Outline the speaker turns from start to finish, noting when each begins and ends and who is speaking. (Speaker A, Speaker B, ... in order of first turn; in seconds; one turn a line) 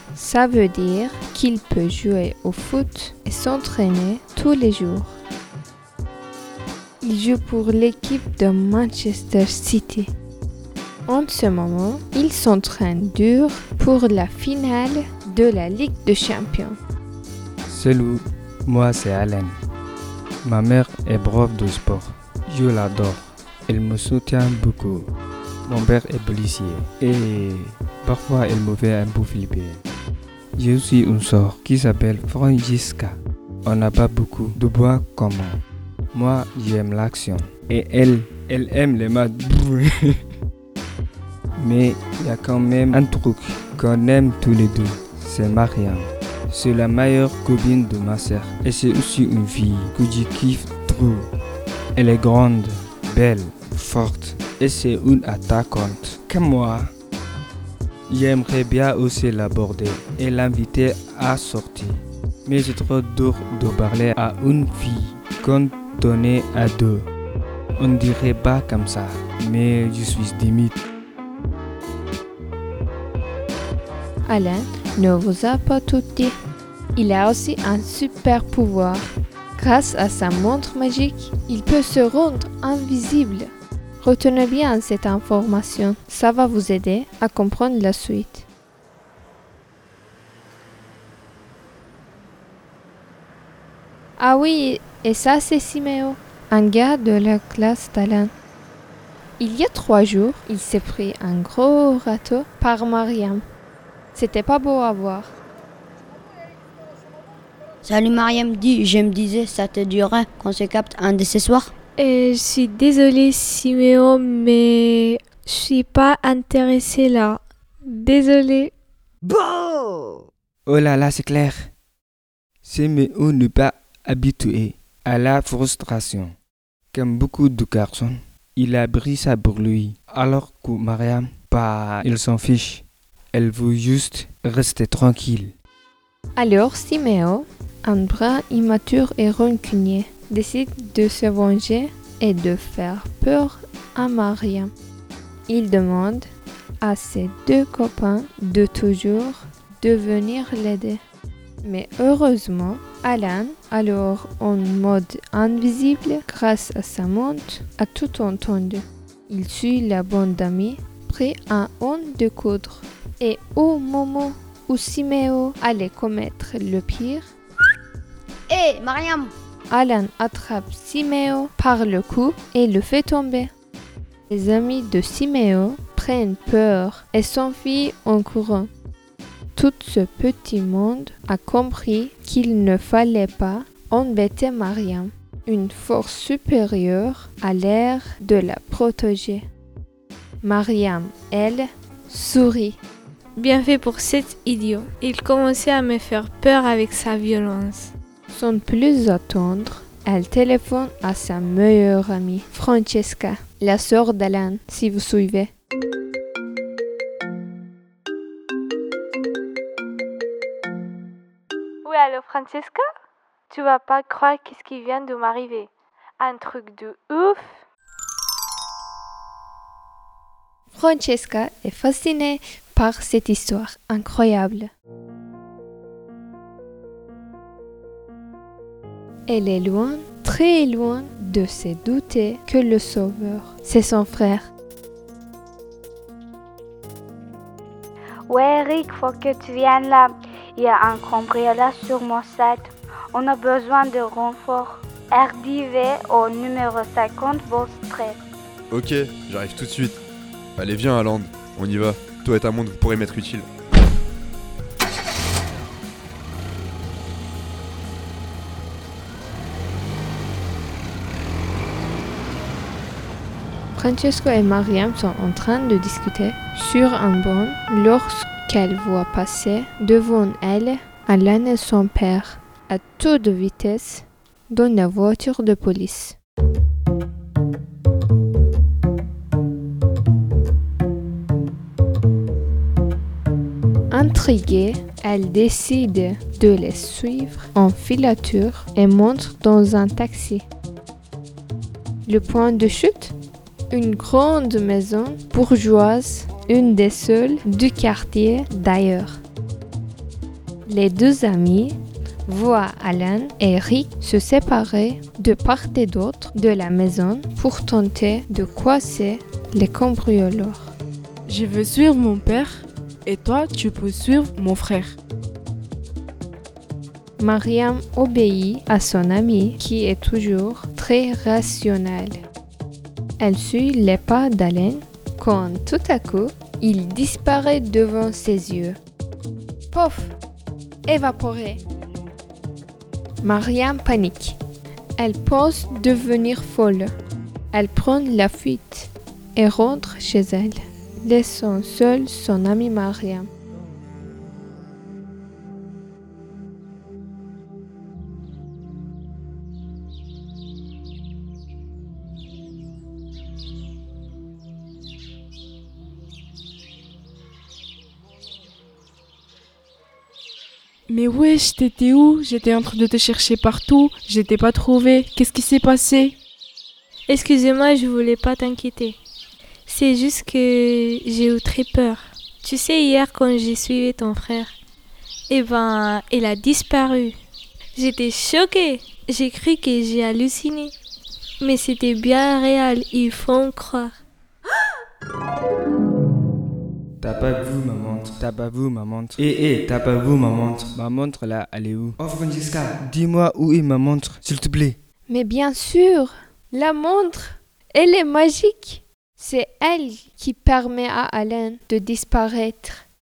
Speaker A: 0.1-5.2
Speaker A: 7.0-10.1
Speaker A: 11.1-16.8
Speaker B: 17.7-19.6
Speaker B: 20.4-25.1
Speaker B: 25.7-29.8
Speaker B: 30.6-35.6
Speaker B: 36.1-40.2
Speaker B: 41.6-51.3
Speaker B: 52.0-56.9
Speaker B: 58.1-67.1
Speaker B: 67.8-70.8
Speaker A: 74.3-76.4
Speaker A: 77.0-88.5
Speaker A: 94.2-98.3
Speaker A: 99.4-103.4
Speaker A: 104.2-105.3
Speaker C: 107.8-111.7
Speaker D: 112.0-118.7
Speaker C: 119.2-120.1
Speaker B: 120.7-121.7
Speaker B: 122.7-126.3
Speaker B: 126.9-132.8
Speaker B: 133.3-135.5
Speaker A: 136.4-144.7
Speaker A: 145.5-146.3
Speaker A: 146.8-151.0
Speaker A: 151.6-167.3
Speaker C: 168.5-169.3
Speaker A: 169.7-173.5
Speaker A: 174.3-178.7
Speaker A: 179.6-189.5
Speaker A: 190.4-192.8
Speaker D: 193.4-197.9
Speaker A: 198.3-205.5
Speaker D: 211.8-212.9
Speaker D: 213.5-215.7
Speaker D: 216.2-217.6
Speaker A: 220.7-224.7
Speaker A: 229.3-234.5
Speaker E: 238.3-248.2
Speaker F: 248.7-250.0
Speaker F: 250.6-253.5
Speaker A: 263.8-276.2
Speaker A: 283.9-290.5
Speaker A: 292.1-293.1
Speaker A: 293.7-299.2
Speaker A: 300.7-301.8
Speaker A: 302.3-310.7
Speaker G: 311.3-315.0
Speaker A: 317.2-322.2
Speaker A: 323.2-328.8
Speaker A: 329.7-330.2
Speaker A: 330.9-331.6
Speaker A: 333.2-334.4
Speaker A: 335.0-336.9
Speaker A: 337.5-343.3
Speaker G: 360.9-366.2
Speaker D: 367.1-369.0
Speaker D: 369.7-374.6
Speaker D: 375.3-377.2
Speaker D: 377.8-380.7
Speaker D: 381.4-383.9
Speaker B: 387.0-394.8
Speaker A: 395.1-402.9